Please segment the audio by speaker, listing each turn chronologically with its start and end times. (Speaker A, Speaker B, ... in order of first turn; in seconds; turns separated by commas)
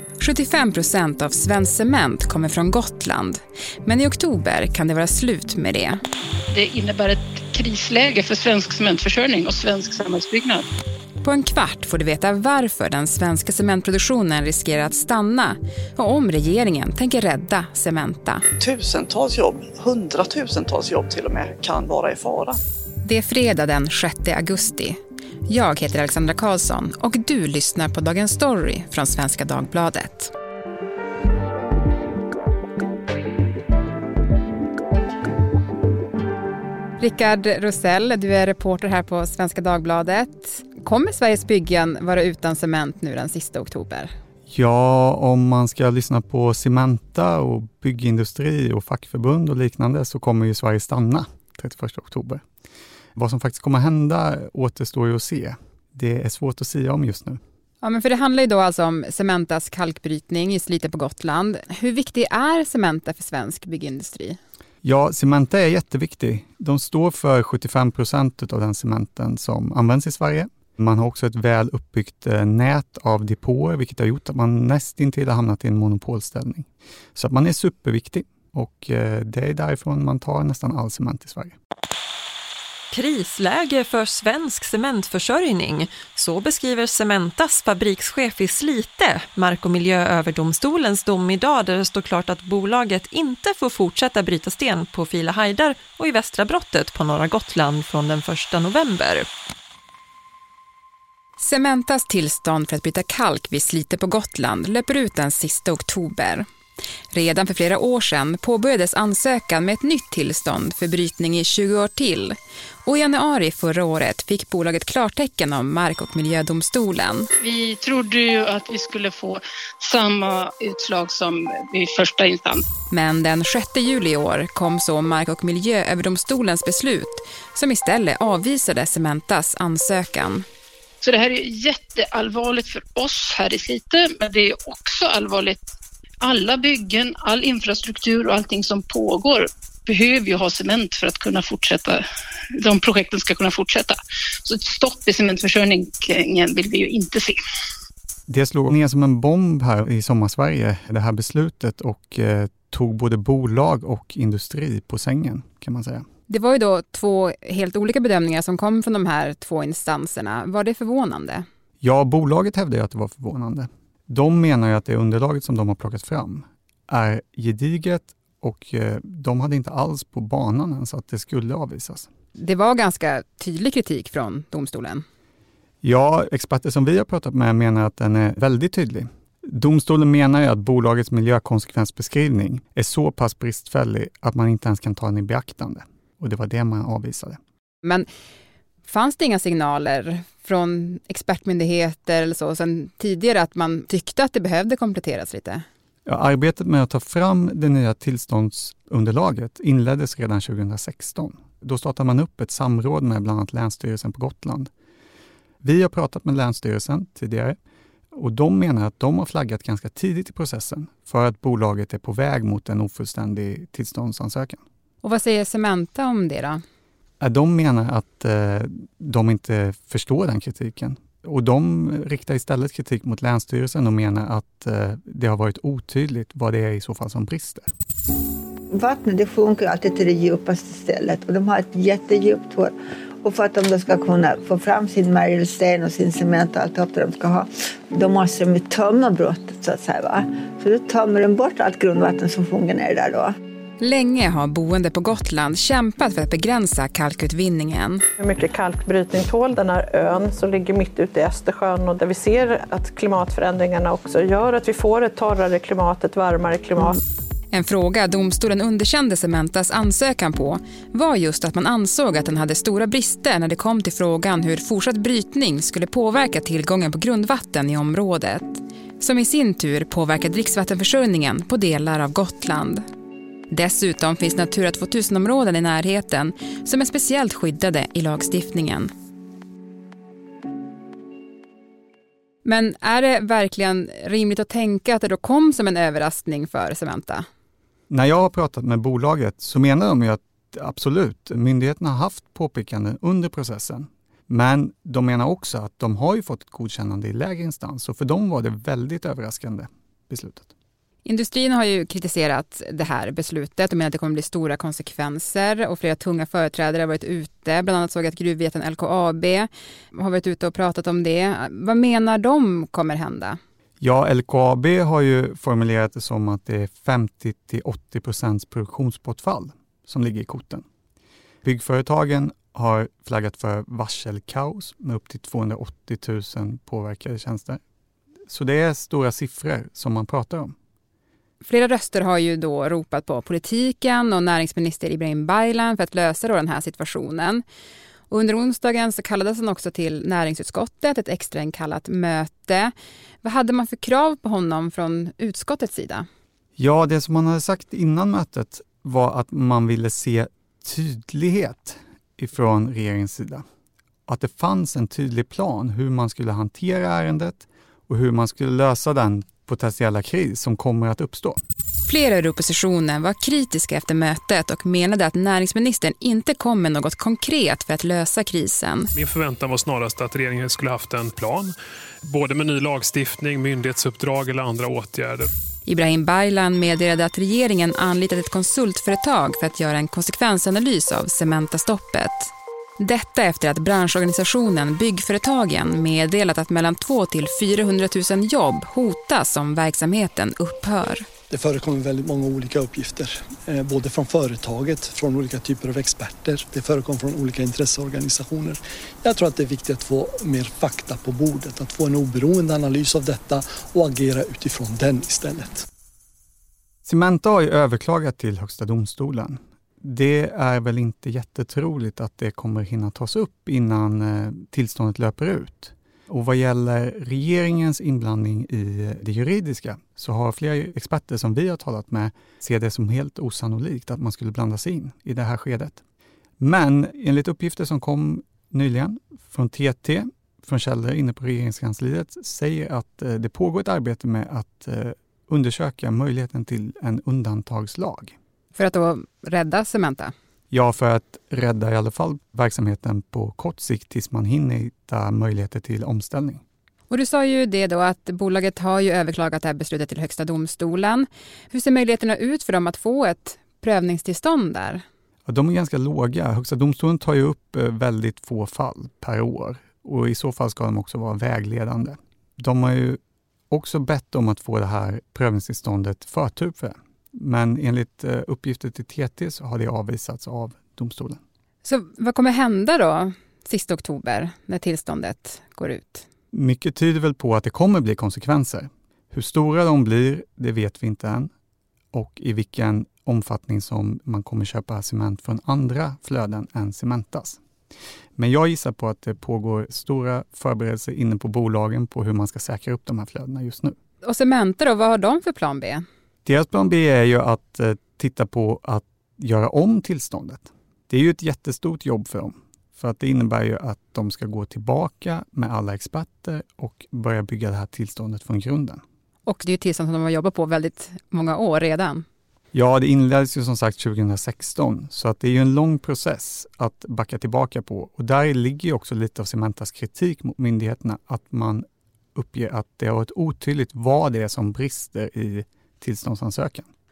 Speaker A: 0.2-6.0, Speaker B: 6.5-10.7, Speaker A: 11.2-18.4, Speaker C: 18.6-22.6, Speaker A: 23.0-30.3, Speaker A: 37.0-44.1, Speaker D: 44.5-52.4, Speaker D: 53.2-57.4, Speaker A: 57.8-64.4, Speaker D: 64.8-81.5, Speaker E: 82.9-99.3, Speaker A: 101.4-106.5, Speaker A: 107.1-117.3, Speaker B: 117.4-122.6, Speaker A: 122.9-130.4, Speaker B: 131.0-135.6, Speaker B: 136.2-142.0, Speaker B: 142.6-147.4, Speaker D: 148.3-156.0, Speaker A: 156.3-161.4, Speaker D: 161.8-172.1, Speaker A: 172.4-175.0, Speaker D: 175.8-187.4, Speaker A: 188.8-195.6, Speaker D: 196.1-204.7, Speaker D: 205.6-207.6, Speaker D: 208.1-214.6, Speaker A: 215.0-216.6, Speaker D: 217.2-227.7, Speaker F: 228.7-243.3, Speaker A: 243.8-248.0, Speaker G: 248.2-257.0, Speaker A: 257.5-272.8, Speaker A: 273.5-278.9, Speaker A: 282.4-287.2, Speaker D: 287.9-300.5, Speaker A: 301.0-313.4, Speaker D: 313.8-320.6, Speaker D: 321.4-327.6, Speaker D: 328.3-330.5, Speaker A: 331.4-337.4, Speaker A: 338.1-346.1, Speaker D: 346.6-353.4, Speaker D: 354.1-361.4, Speaker A: 361.8-368.9, Speaker H: 368.9-371.5, Speaker H: 372.0-375.3, Speaker A: 375.6-391.1, Speaker I: 391.3-405.6, Speaker D: 406.9-425.8, Speaker D: 426.4-438.1, Speaker A: 438.6-440.1, Speaker D: 440.5-446.4, Speaker A: 446.9-454.8, Speaker D: 455.2-463.0, Speaker D: 463.5-471.2, Speaker A: 471.6-476.1, Speaker D: 476.3-481.3, Speaker D: 481.9-487.4, Speaker D: 488.2-493.7, Speaker A: 494.0-495.8, Speaker D: 496.2-508.8, Speaker A: 509.2-512.0, Speaker D: 512.5-526.7